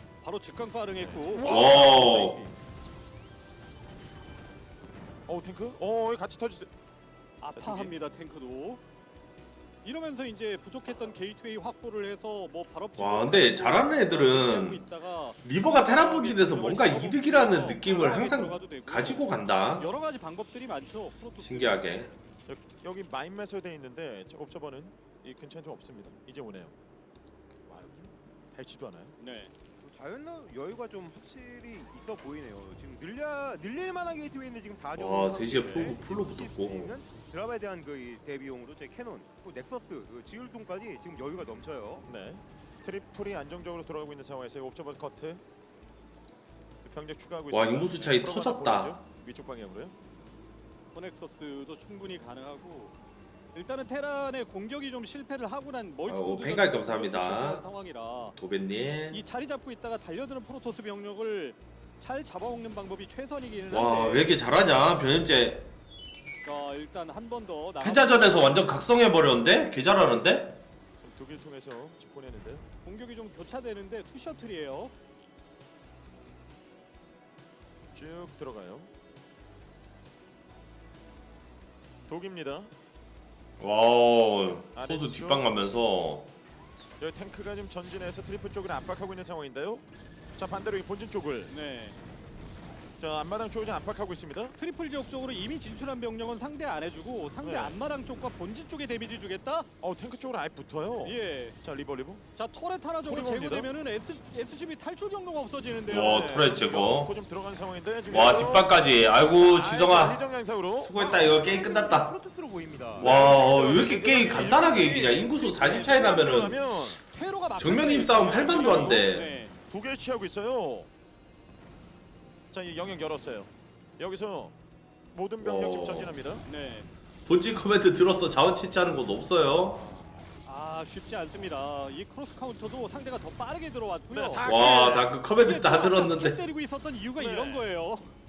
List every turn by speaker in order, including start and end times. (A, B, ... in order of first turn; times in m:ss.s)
0:00.2-0:02.5 A
0:01.0-0:02.3 B
0:01.4-0:02.4 C
0:05.3-0:06.7 B
0:07.4-0:08.8 A
0:07.5-0:08.0 B
0:09.8-0:21.8 A
0:13.0-0:14.8 C
0:15.4-0:19.9 C
0:21.4-0:22.1 C
0:22.5-0:26.7 B
0:27.6-0:29.2 B
0:29.2-0:29.5 A
0:29.8-0:42.1 D
0:35.0-0:36.9 C
0:42.0-0:45.4 B
0:46.8-0:50.0 B
0:47.5-0:49.0 C
0:50.9-0:52.9 A
0:53.5-0:58.4 A
0:56.1-0:57.6 C
0:58.4-0:59.2 C
0:59.1-1:04.3 A
1:03.7-1:05.7 C
1:06.4-1:08.7 A
1:07.8-1:10.6 C
1:11.0-1:12.6 B
1:12.8-1:14.9 A
1:17.9-1:18.9 B
1:22.1-1:22.7 B
1:23.6-1:26.3 C
1:24.7-1:25.5 B
1:27.0-1:31.5 B
1:31.5-1:32.0 A
1:33.0-1:34.5 B
1:34.6-1:39.7 A
1:37.4-1:37.8 B
1:39.8-1:42.2 B
1:41.0-1:41.6 A
1:42.3-1:46.4 A
1:43.1-1:43.7 B
1:45.9-1:47.1 C
1:45.9-1:50.9 B
1:48.1-1:50.2 C
1:50.8-1:52.1 C
1:51.0-1:53.2 D
1:53.0-1:56.6 C
1:53.0-1:57.0 B
1:54.4-1:55.2 A
1:57.0-1:59.5 A
1:57.6-1:59.3 C
1:59.7-2:00.9 B
2:02.5-2:04.5 B
2:05.1-2:06.4 B
2:05.4-2:06.2 C
2:06.4-2:06.9 A
2:07.2-2:09.8 C
2:10.4-2:18.1 A
2:14.1-2:15.0 B
2:14.4-2:16.4 C
2:17.2-2:17.7 B